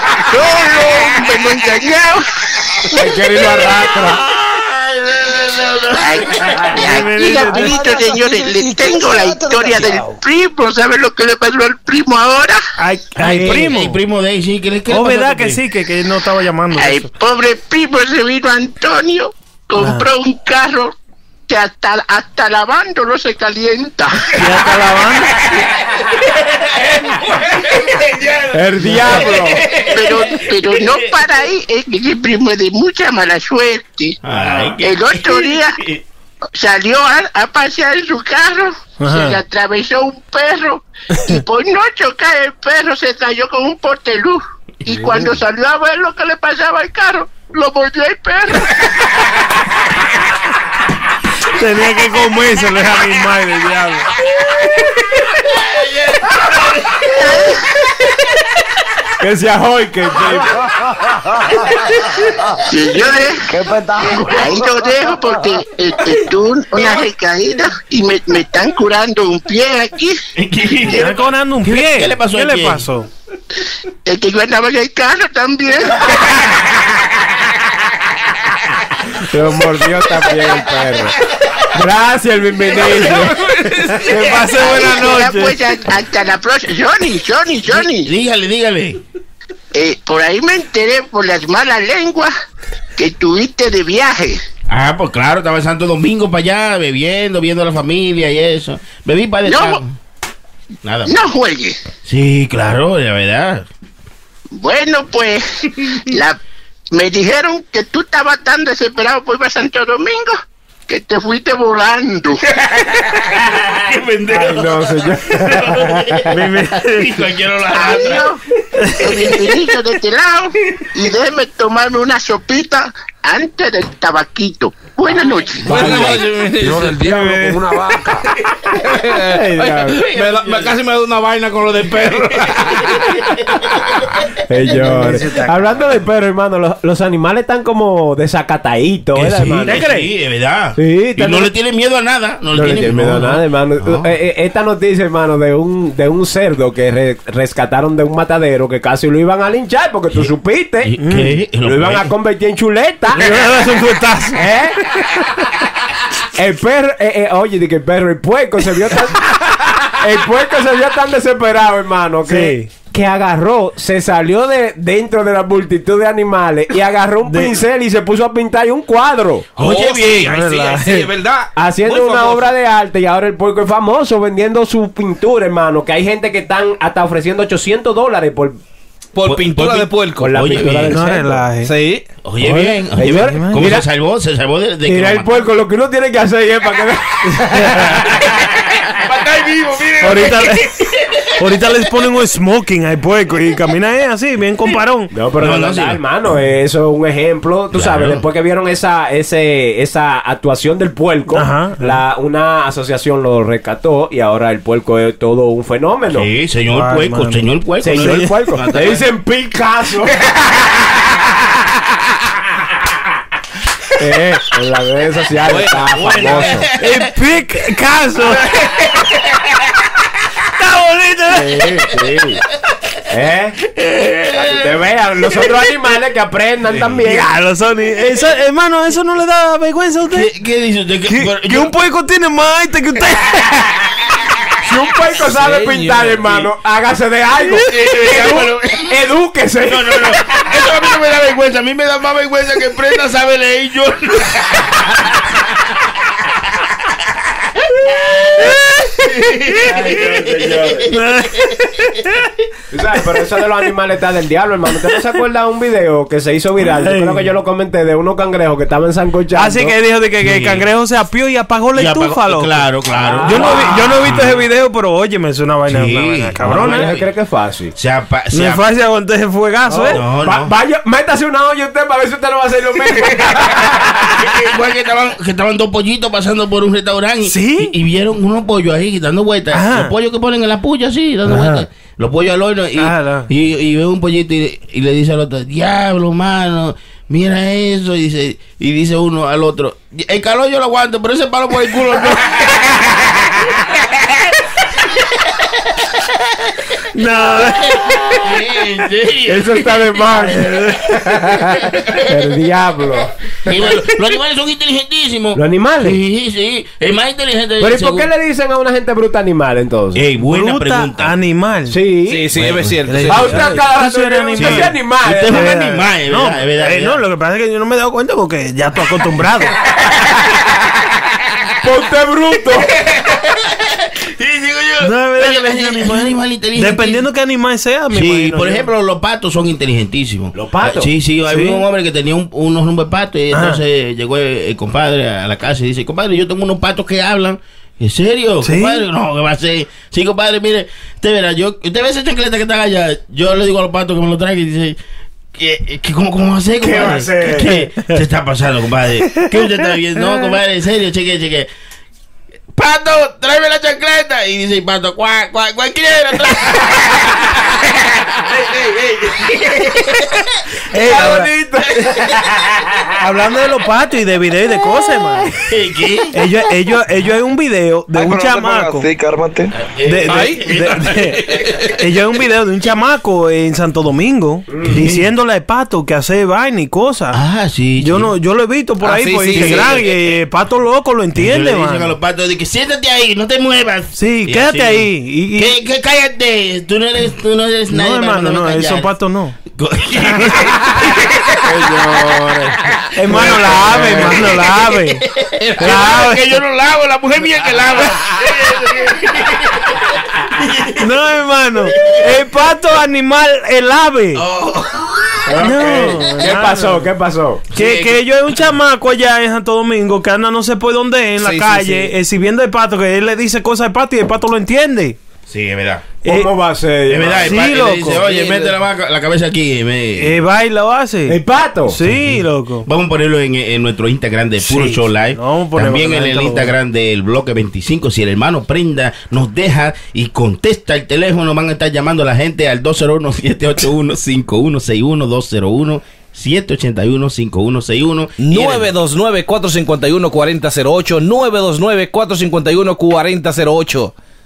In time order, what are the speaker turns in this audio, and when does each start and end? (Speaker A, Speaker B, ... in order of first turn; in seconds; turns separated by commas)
Speaker A: 0.3-2.3, Speaker B: 0.8-1.5, Speaker C: 2.9-4.2, Speaker B: 4.1-6.8, Speaker A: 6.0-12.6, Speaker D: 6.8-7.8, Speaker E: 7.3-10.2, Speaker D: 12.8-14.0, Speaker B: 13.2-15.6, Speaker D: 14.9-17.1, Speaker A: 16.7-20.9, Speaker D: 19.8-20.1, Speaker A: 21.5-24.3, Speaker D: 24.3-25.4, Speaker B: 25.5-31.4, Speaker C: 28.5-29.6, Speaker A: 29.9-34.1, Speaker B: 34.2-36.0, Speaker A: 34.8-35.7, Speaker A: 36.5-48.7, Speaker D: 39.0-39.4, Speaker B: 44.9-45.3, Speaker D: 51.5-54.1, Speaker B: 55.5-57.1, Speaker A: 57.1-57.6, Speaker C: 59.2-60.5, Speaker A: 62.7-63.4, Speaker E: 63.5-65.5, Speaker A: 64.0-70.2, Speaker B: 70.3-72.8, Speaker D: 70.9-73.1, Speaker A: 74.0-76.1, Speaker C: 79.2-83.4, Speaker F: 82.8-84.1, Speaker D: 84.0-85.6, Speaker A: 84.4-88.1, Speaker B: 87.7-89.0, Speaker A: 89.7-92.3, Speaker A: 93.0-94.4, Speaker B: 94.7-99.9, Speaker A: 99.5-99.8, Speaker B: 100.8-101.2, Speaker A: 101.1-101.8, Speaker B: 102.0-103.7, Speaker A: 104.5-105.4, Speaker A: 106.1-106.3, Speaker A: 106.9-110.3, Speaker A: 110.9-112.3, Speaker B: 112.5-118.3, Speaker C: 114.3-116.3, Speaker D: 116.3-117.2, Speaker A: 117.7-118.4, Speaker D: 118.8-119.4, Speaker A: 119.0-126.0, Speaker F: 125.6-128.0, Speaker B: 125.7-126.1, Speaker C: 125.7-126.2, Speaker E: 126.7-128.1, Speaker F: 128.7-133.2, Speaker C: 129.2-130.0, Speaker B: 129.9-130.8, Speaker B: 132.9-133.7, Speaker C: 134.5-139.8, Speaker D: 134.7-135.5, Speaker B: 139.1-144.1, Speaker D: 139.7-140.1, Speaker C: 140.8-141.5, Speaker C: 142.5-150.9, Speaker B: 150.8-152.1, Speaker D: 151.0-151.3, Speaker C: 151.6-153.3, Speaker D: 153.1-154.4, Speaker C: 154.3-154.8, Speaker C: 156.3-169.5, Speaker D: 162.3-162.7, Speaker D: 167.3-167.6, Speaker F: 169.6-172.5, Speaker B: 169.6-170.3, Speaker D: 170.1-171.1, Speaker C: 171.6-178.6, Speaker F: 179.1-180.4, Speaker B: 179.2-181.0, Speaker C: 180.2-181.5, Speaker D: 180.9-181.7, Speaker F: 181.6-182.1, Speaker B: 182.2-185.4, Speaker C: 182.4-183.8, Speaker D: 183.2-183.7, Speaker C: 184.8-188.3, Speaker D: 187.6-188.0, Speaker B: 188.9-191.2, Speaker D: 190.0-195.1, Speaker C: 195.1-206.3, Speaker B: 195.4-196.0, Speaker B: 197.7-198.2, Speaker D: 201.3-202.0, Speaker B: 206.1-209.1, Speaker D: 206.7-208.3, Speaker C: 207.8-210.2, Speaker C: 214.0-216.7, Speaker F: 215.4-216.6, Speaker B: 216.4-217.1, Speaker D: 216.8-218.5, Speaker B: 218.2-219.6, Speaker D: 220.5-221.7, Speaker C: 221.3-222.4, Speaker C: 223.1-223.6, Speaker B: 223.6-224.7, Speaker C: 224.3-227.3, Speaker D: 227.1-230.3, Speaker B: 230.1-231.7, Speaker D: 231.1-233.5, Speaker C: 234.6-240.4, Speaker F: 235.2-236.5, Speaker B: 237.6-238.9, Speaker B: 239.7-245.2, Speaker B: 247.9-251.6, Speaker D: 248.4-248.8, Speaker C: 249.7-250.9, Speaker D: 250.9-252.1, Speaker C: 252.7-259.7, Speaker D: 256.7-257.3, Speaker D: 259.3-262.6, Speaker B: 260.2-260.7, Speaker B: 261.7-264.4, Speaker C: 262.9-263.7, Speaker D: 263.2-266.8, Speaker B: 265.6-267.1, Speaker C: 266.4-267.7, Speaker B: 267.7-268.6, Speaker D: 268.3-270.0, Speaker C: 269.7-274.2, Speaker B: 269.9-270.5, Speaker B: 273.0-273.4, Speaker B: 274.1-294.3, Speaker D: 277.2-277.7, Speaker D: 279.5-279.9, Speaker C: 281.3-281.6, Speaker D: 282.8-283.3, Speaker B: 295.4-296.1, Speaker D: 296.9-298.4, Speaker B: 297.4-299.9, Speaker C: 299.3-303.6, Speaker D: 300.2-301.1, Speaker B: 303.4-308.1, Speaker C: 305.3-306.0, Speaker C: 307.6-310.0, Speaker B: 309.9-311.1, Speaker D: 310.2-311.8, Speaker C: 311.7-312.3, Speaker F: 312.1-313.4, Speaker B: 312.3-312.8, Speaker D: 312.9-314.7, Speaker C: 313.1-315.4, Speaker B: 314.3-317.0, Speaker D: 315.3-319.5, Speaker C: 321.6-322.7, Speaker B: 322.8-327.0, Speaker D: 324.8-328.7, Speaker B: 327.9-344.8, Speaker C: 330.3-330.9, Speaker D: 331.3-331.6, Speaker D: 333.3-333.6, Speaker D: 338.4-338.8, Speaker B: 345.3-351.5, Speaker C: 346.6-347.5, Speaker D: 346.8-347.5, Speaker B: 352.5-360.1, Speaker D: 360.7-361.3, Speaker C: 360.9-361.8, Speaker B: 361.7-362.8, Speaker D: 363.0-365.4, Speaker B: 365.3-366.1, Speaker D: 366.1-368.9, Speaker E: 367.9-369.5, Speaker B: 369.6-371.0, Speaker D: 369.8-377.2, Speaker F: 370.1-371.7, Speaker C: 374.5-374.8, Speaker B: 374.7-375.1, Speaker B: 377.1-378.1, Speaker D: 377.8-381.9, Speaker F: 378.8-379.9, Speaker B: 379.3-379.9, Speaker B: 381.1-388.9, Speaker D: 383.9-385.5, Speaker D: 387.7-389.4, Speaker B: 389.5-391.4, Speaker C: 391.4-392.6, Speaker B: 392.7-400.8, Speaker D: 392.9-395.0, Speaker C: 393.8-394.1, Speaker D: 395.6-396.3, Speaker F: 395.6-395.9, Speaker D: 400.8-404.2, Speaker B: 404.1-405.1, Speaker C: 405.2-407.4, Speaker D: 405.4-406.9, Speaker B: 407.5-408.0, Speaker D: 407.5-415.0, Speaker F: 411.2-411.9, Speaker B: 415.3-415.9, Speaker C: 416.0-417.3, Speaker D: 416.0-416.3, Speaker B: 416.9-420.2, Speaker D: 417.2-418.4, Speaker D: 420.0-422.7, Speaker C: 421.1-421.8, Speaker B: 421.8-438.7, Speaker D: 424.4-426.5, Speaker F: 438.2-443.9